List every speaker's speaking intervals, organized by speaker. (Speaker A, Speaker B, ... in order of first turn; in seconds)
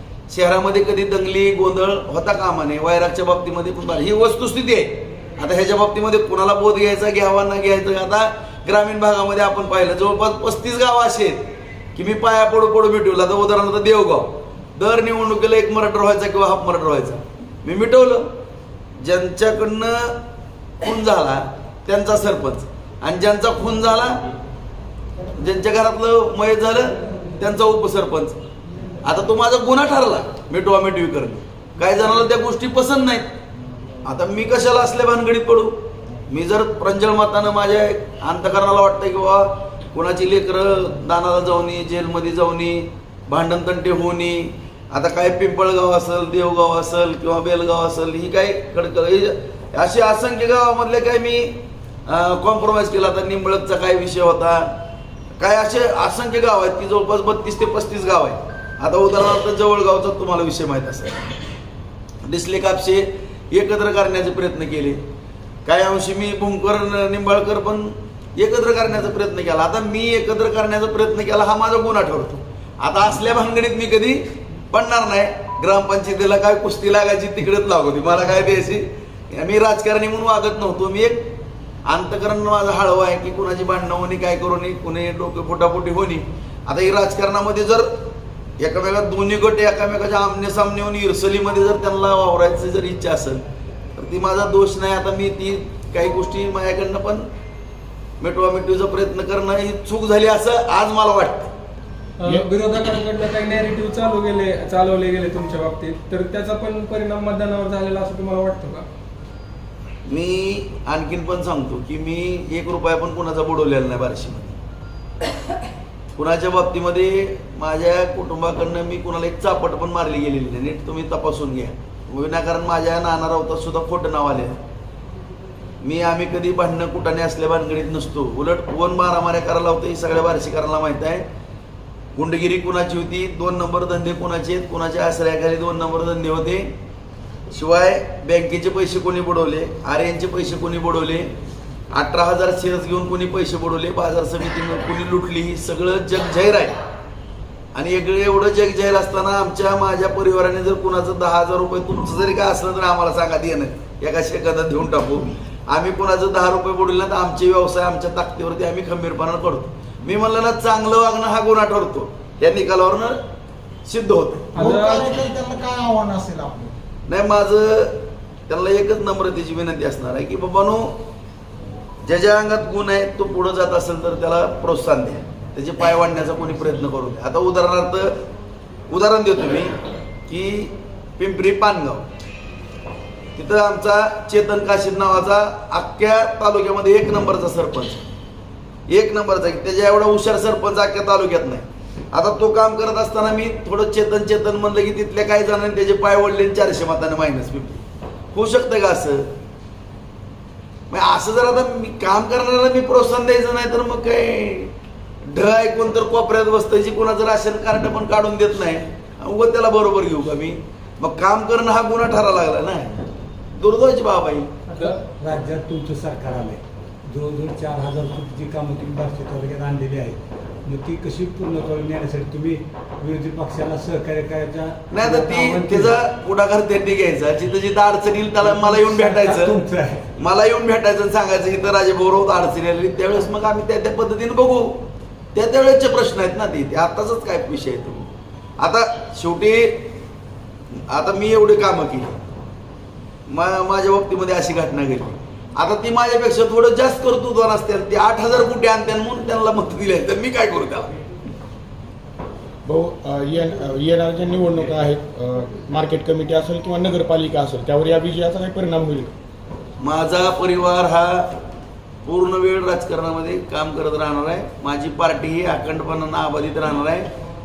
Speaker A: 0.3-11.4, 11.9-18.3, 19.0-20.1, 20.8-24.2, 25.4-28.4, 29.0-33.3, 34.0-35.8, 36.3-54.7, 55.4-61.2, 62.2-65.0, 65.7-81.3, 81.8-87.9, 88.6-93.4, 93.9-97.2, 98.2-101.5, 110.0-114.6, 116.2-124.6, 125.8-131.2, 132.2-136.7, 137.5-141.3, 141.9-146.7, 147.7-163.2, 163.8-164.5, 167.1-170.9, 172.0-178.1, 178.9-179.7, 180.3-182.1, 183.3-188.0, 188.9-199.3, 200.9-204.7, 205.3-213.0, 213.6-214.5, 224.9-229.6, 230.2-238.1, 238.6-239.9, 240.9-242.2, 243.3-250.9, 259.8-261.3, 262.0-267.1
Speaker B: 102.2-108.8, 164.5-165.3, 214.7-215.0
Speaker C: 164.6-166.7
Speaker D: 214.9-226.0, 228.4-230.1
Speaker E: 252.7-259.1